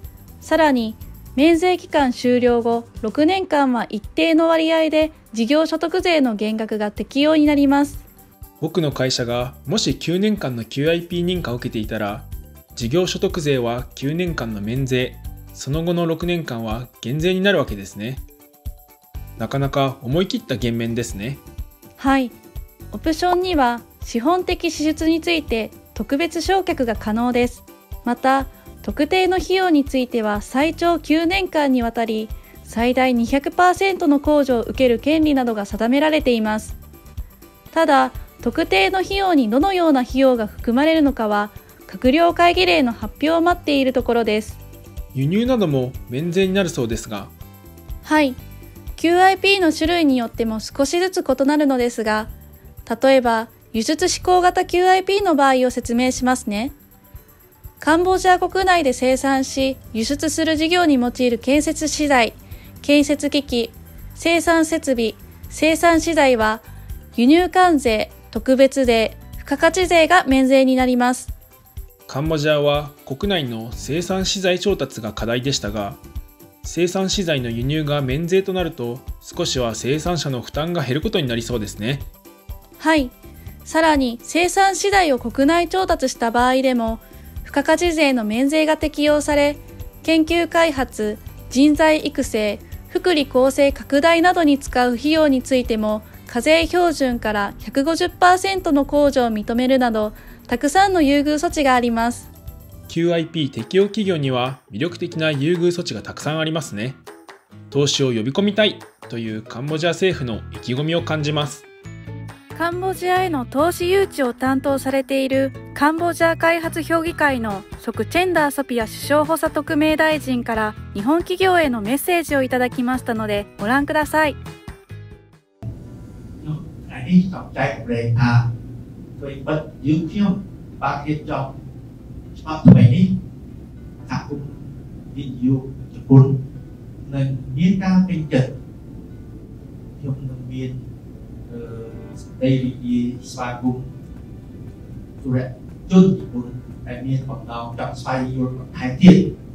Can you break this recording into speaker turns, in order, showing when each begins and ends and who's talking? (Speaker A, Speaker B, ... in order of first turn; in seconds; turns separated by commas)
Speaker A: 0.4-8.0, Speaker B: 8.6-18.2, Speaker B: 19.4-21.4, Speaker A: 22.0-22.4, Speaker A: 22.9-36.8, Speaker A: 37.7-44.6, Speaker B: 45.1-47.3, Speaker A: 48.0-48.4, Speaker A: 49.0-52.3, Speaker A: 52.9-56.7, Speaker A: 57.8-71.3, Speaker B: 72.1-76.0, Speaker B: 76.6-82.1, Speaker A: 82.8-102.3, Speaker B: 102.9-107.0, Speaker B: 107.7-111.7, Speaker A: 112.5-124.4, Speaker C: 126.4-128.5, Speaker C: 129.2-131.5, Speaker C: 132.3-133.2, Speaker C: 134.1-136.4, Speaker C: 137.1-138.5, Speaker C: 140.0-140.8, Speaker C: 141.5-143.9, Speaker C: 145.2-149.3